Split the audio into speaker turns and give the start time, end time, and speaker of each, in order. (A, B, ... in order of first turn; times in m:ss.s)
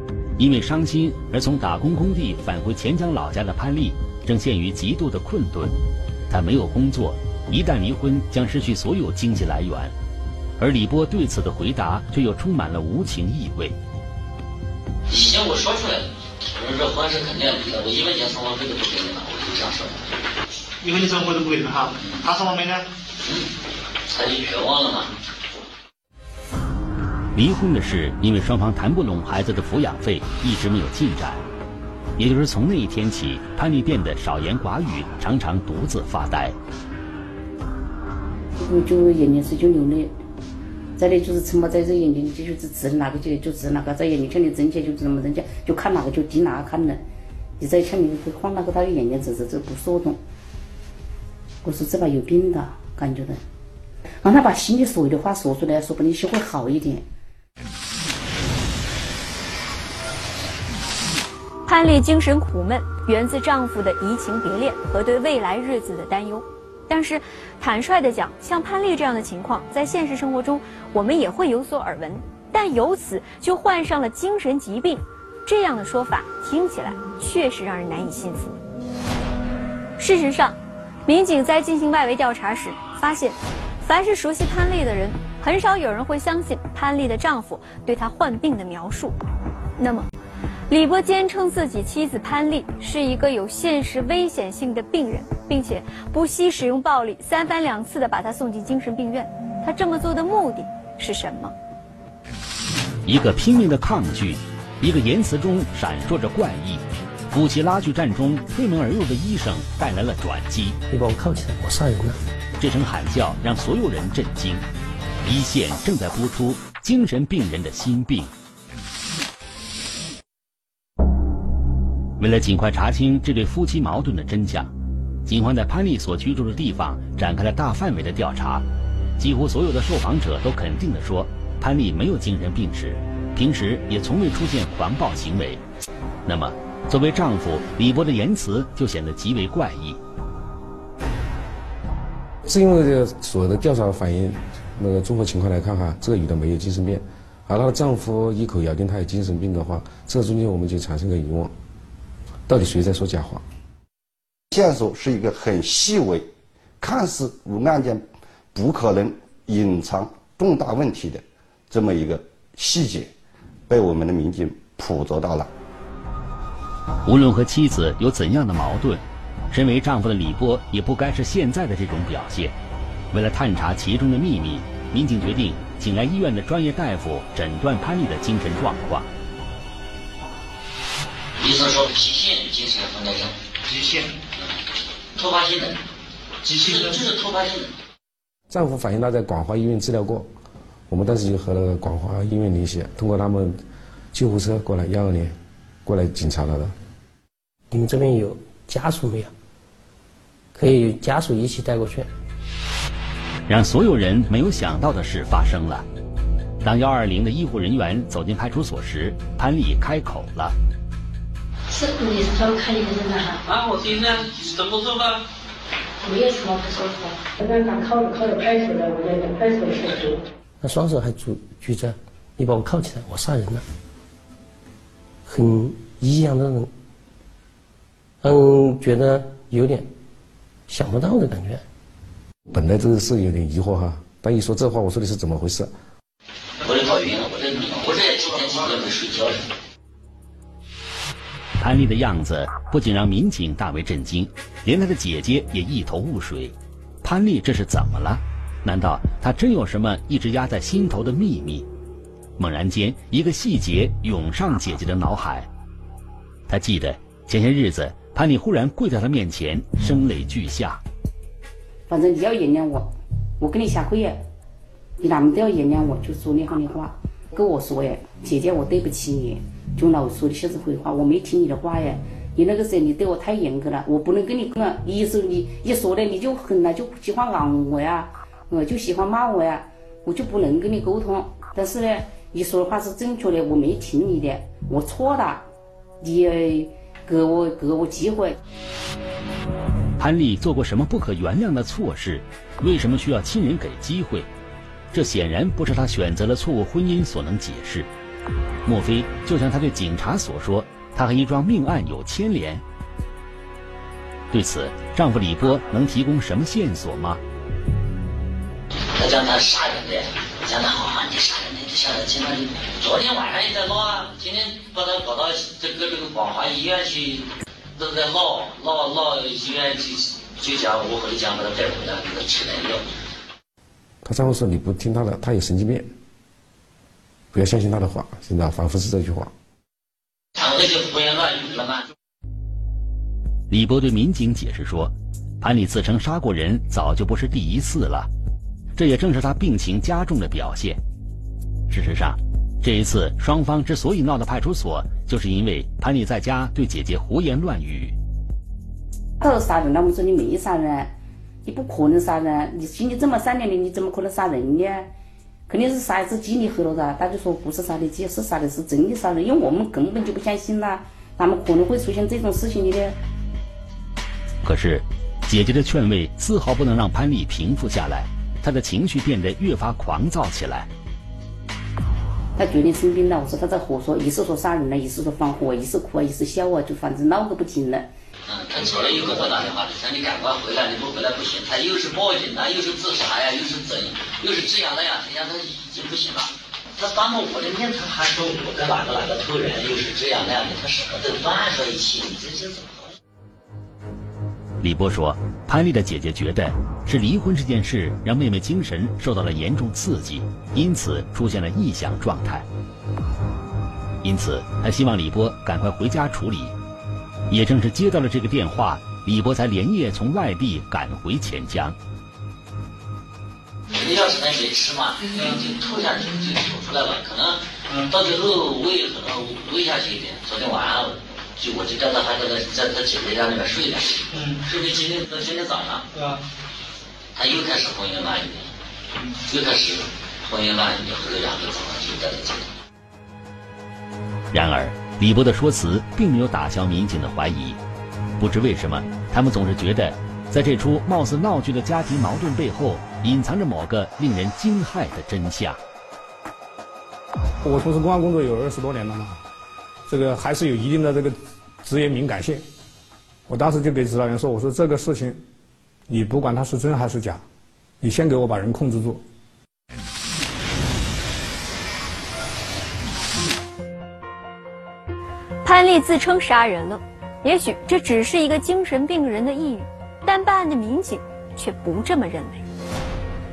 0:00.4-0:05.7 A
0:06.3-0:09.9 A
0:10.6-0:13.8 A
0:15.1-0:20.0 B
0:20.8-0:22.8 C
0:24.1-0:25.1 B
0:27.3-0:31.4 A
0:32.2-0:36.6 A
0:38.6-0:40.2 D
0:41.0-0:47.0 D
0:47.6-0:50.2 D
0:51.6-0:53.4 D
0:54.2-0:57.0 D
1:01.6-1:18.6 E
1:20.0-1:29.2 E
1:29.8-1:30.1 E
1:30.7-1:41.5 E
1:43.0-1:50.8 A
1:50.9-1:52.2 F
1:52.6-1:54.6 A
1:55.2-1:58.3 A
2:02.2-2:04.7 A
2:05.2-2:08.7 A
2:09.2-2:15.6 A
2:16.2-2:20.0 A
2:22.4-2:31.5 G
2:32.5-2:33.4 G
2:34.5-2:43.1 H
2:43.7-2:45.5 H
2:47.0-2:52.6 A
2:53.1-2:59.1 A
3:01.4-3:03.4 B
3:03.6-3:04.1 C
3:05.2-3:05.8 B
3:06.4-3:07.0 C
3:06.4-3:07.7 B
3:08.5-3:10.3 G
3:10.9-3:13.6 G
3:14.1-3:16.7 G
3:17.7-3:19.3 F
3:20.5-3:22.1 F
3:23.5-3:25.8 A
3:26.6-3:30.5 A
3:31.7-3:33.4 I
3:36.0-3:40.2 I
3:40.6-3:43.6 F
3:45.2-3:46.7 F
3:48.2-3:49.9 F
3:50.7-3:51.6 F
3:52.5-3:55.7 G
3:56.6-3:59.5 B
4:01.6-4:11.7 A
4:12.4-4:15.5 A
4:16.5-4:20.8 A
4:21.9-4:24.2 D
4:25.0-4:45.4 D
4:46.0-4:48.4 D
4:50.0-4:54.3 A
4:54.9-4:57.9 A
4:58.6-5:02.6 A
5:04.3-5:07.2 A
5:08.9-5:22.8 B
5:24.0-5:25.9 G
5:27.3-5:29.3 G
5:30.4-5:31.9 B
5:33.5-5:38.1 A
5:38.8-5:40.8 A
5:41.7-5:48.0 A
5:49.2-5:50.9 D
5:51.4-5:54.9 D
5:55.5-6:03.0 D
6:04.4-6:10.7 A
6:12.4-6:17.9 D
6:18.3-6:32.9 B
6:18.6-6:19.3 C
6:34.6-6:42.4 A
6:44.0-6:46.6 A
6:47.3-6:51.8 A
6:53.7-7:05.9 B
6:55.1-6:55.4 C
7:04.1-7:04.4 C
7:05.9-7:06.2 C
7:07.1-7:08.5 B
7:09.2-7:12.5 B
7:14.3-7:17.6 A
7:18.2-7:25.6 A
7:27.4-7:29.2 J
7:29.9-7:32.4 J
7:33.3-7:35.2 J
7:35.9-7:37.2 J
7:37.8-7:39.0 J
7:45.4-7:52.4 E